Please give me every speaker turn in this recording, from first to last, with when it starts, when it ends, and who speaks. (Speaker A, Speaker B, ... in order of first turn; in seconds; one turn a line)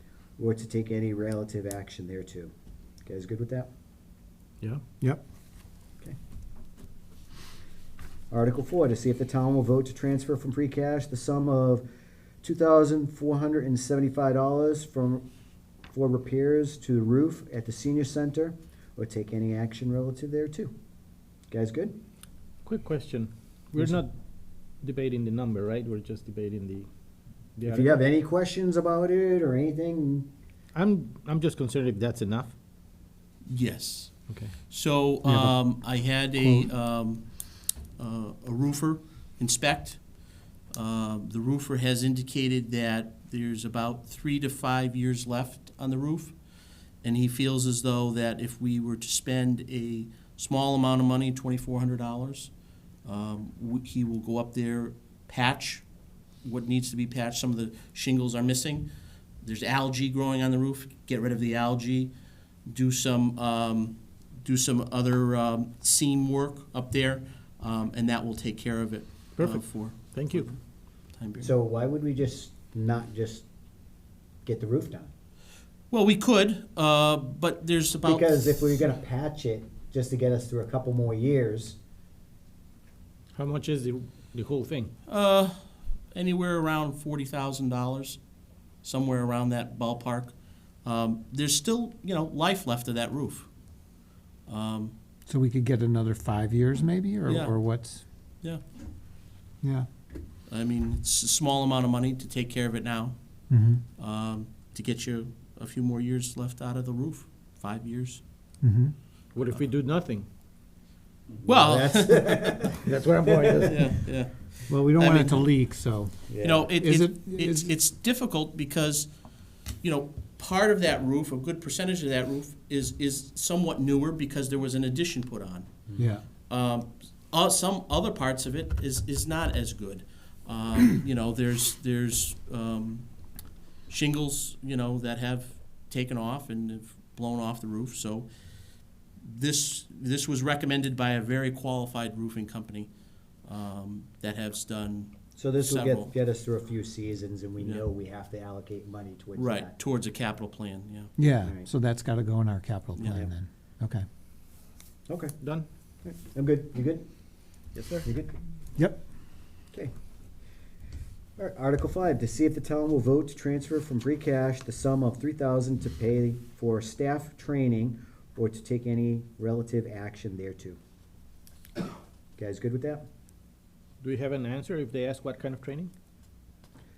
Speaker A: 0.4-2.5
Speaker A: 3.0-3.7
Speaker A: 8.3-11.9
Speaker A: 12.4-15.3
Speaker A: 15.9-20.7
Speaker A: 21.5-22.0
Speaker B: 22.6-24.1
Speaker B: 24.8-26.9
Speaker B: 27.6-28.0
Speaker A: 27.7-30.3
Speaker B: 30.7-32.5
Speaker C: 33.5-37.2
Speaker D: 35.2-35.5
Speaker D: 36.4-36.7
Speaker C: 38.0-40.0
Speaker C: 40.7-46.4
Speaker C: 47.0-52.5
Speaker C: 53.0-55.8
Speaker C: 56.4-58.9
Speaker C: 59.4-62.1
Speaker C: 62.7-70.5
Speaker B: 69.4-70.5
Speaker C: 71.1-71.5
Speaker A: 71.4-73.5
Speaker A: 74.4-75.1
Speaker C: 75.9-78.8
Speaker A: 78.0-81.8
Speaker B: 83.3-84.9
Speaker C: 85.1-85.6
Speaker C: 86.1-88.2
Speaker C: 88.8-93.5
Speaker C: 94.5-94.9
Speaker D: 95.3-98.0
Speaker C: 97.2-97.5
Speaker C: 100.5-103.2
Speaker D: 103.5-103.8
Speaker C: 104.0-108.2
Speaker D: 108.6-108.9
Speaker B: 109.3-110.2
Speaker A: 111.4-113.7
Speaker C: 111.4-112.8
Speaker B: 112.8-113.9
Speaker C: 113.7-115.5
Speaker D: 114.7-117.7
Speaker A: 116.3-116.7
Speaker C: 116.4-119.1
Speaker C: 119.8-125.7
Speaker D: 126.0-126.2
Speaker C: 126.5-133.1
Speaker C: 133.9-138.3
Speaker C: 139.2-142.9
Speaker C: 143.4-146.1
Speaker A: 145.3-149.8
Speaker C: 147.6-147.8
Speaker C: 149.3-151.1
Speaker D: 151.2-154.0
Speaker A: 151.4-151.7
Speaker C: 153.0-153.2
Speaker A: 155.1-155.3
Speaker B: 155.4-155.7
Speaker A: 156.0-157.1
Speaker B: 157.8-158.1
Speaker A: 158.0-158.3
Speaker D: 158.8-159.0
Speaker A: 161.4-170.8
Speaker A: 172.4-173.1
Speaker B: 174.0-175.9